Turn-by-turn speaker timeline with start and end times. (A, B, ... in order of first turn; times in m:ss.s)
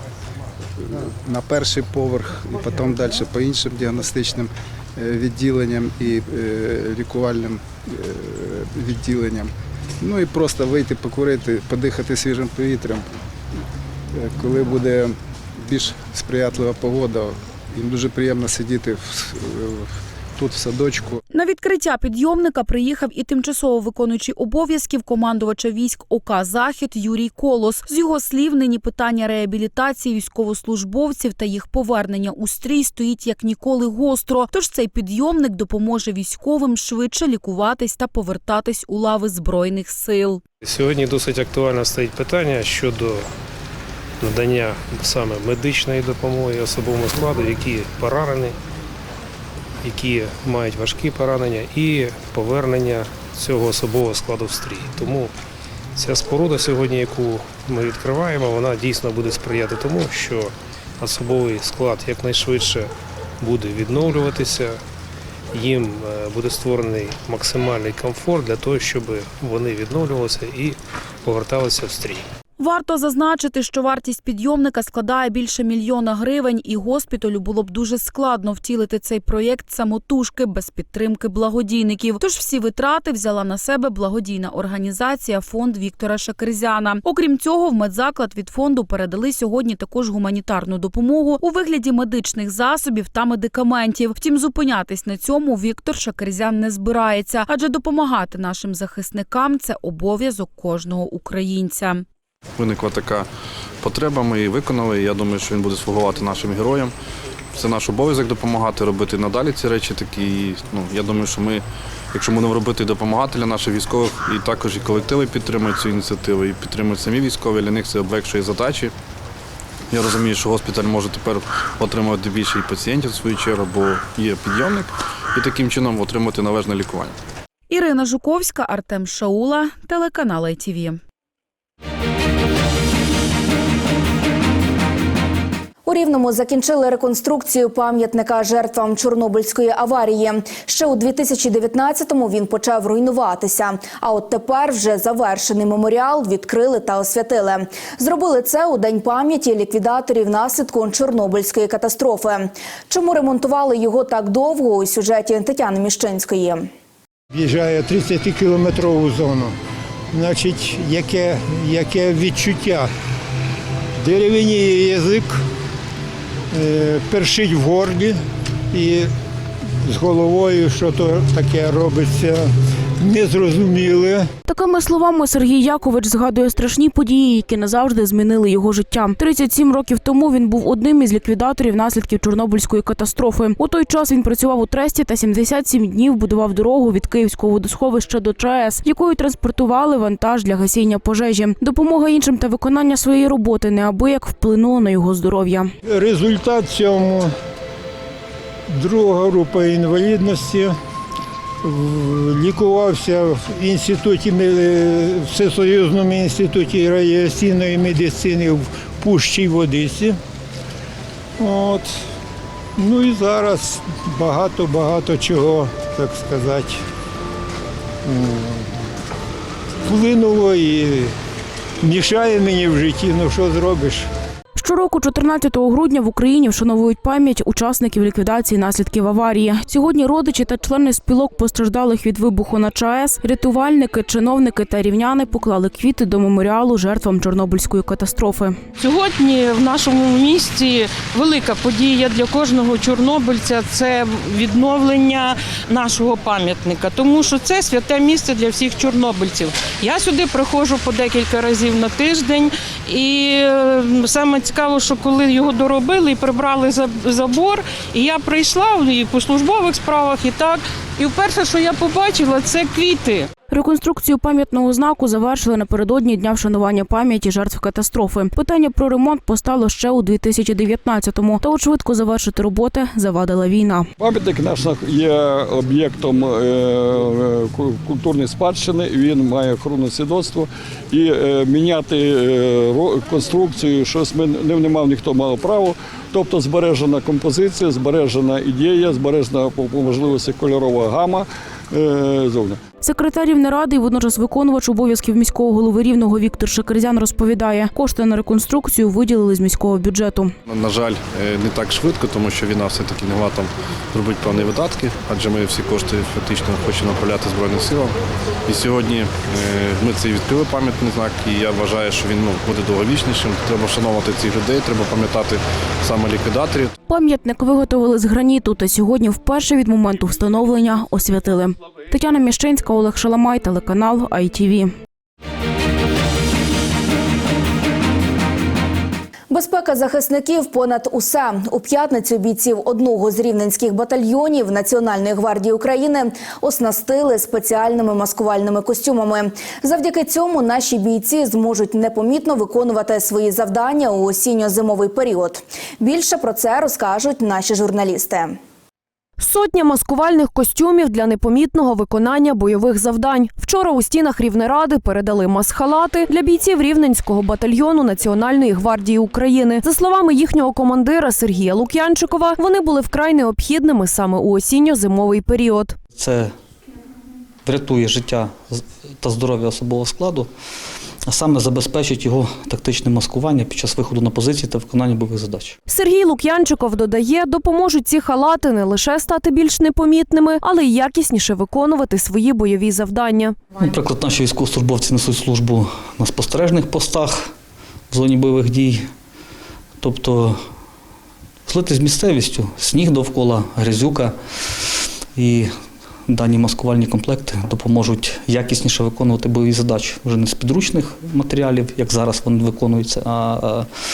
0:00.8-0:13.1 A
0:14.1-0:21.2 A
0:21.3-0:40.4 B
0:40.6-0:43.3 C
0:44.2-0:48.6 C
0:49.8-0:55.3 C
0:56.0-1:04.8 C
1:05.5-1:12.2 C
1:12.6-1:42.0 B
1:42.6-1:43.3 D
1:43.8-1:46.9 D
1:47.6-1:58.9 D
1:59.9-2:07.2 D
2:07.7-2:11.0 B
2:15.8-2:36.7 E
2:37.3-2:39.5 F
2:40.1-2:42.9 F
2:44.0-2:45.3 F
2:46.5-2:48.2 F
2:48.7-2:49.1 F
2:49.9-2:52.4 F
2:53.0-2:54.2 F
2:54.4-3:15.7 G
3:15.9-3:17.3 F
3:18.8-3:20.7 F
3:21.6-3:30.1 F
3:31.4-3:31.9 F
3:32.8-3:36.8 F
3:38.0-3:38.6 F
3:39.9-3:41.1 F
3:41.8-3:44.0 F
3:44.6-3:58.6 G
3:58.8-4:23.3 H
4:23.5-4:33.9 G
4:34.0-4:52.6 I
4:52.8-5:00.3 G
5:00.5-5:16.7 D
5:16.9-5:24.7 G
5:29.3-5:48.4 E
5:49.2-6:05.8 J
6:05.9-6:06.3 K
6:07.4-6:10.3 K
6:11.0-6:15.6 K
6:15.7-6:23.4 J
6:23.6-6:27.3 K
6:27.9-6:28.9 K
6:29.8-6:30.4 K
6:31.4-6:35.5 K
6:36.1-6:43.7 K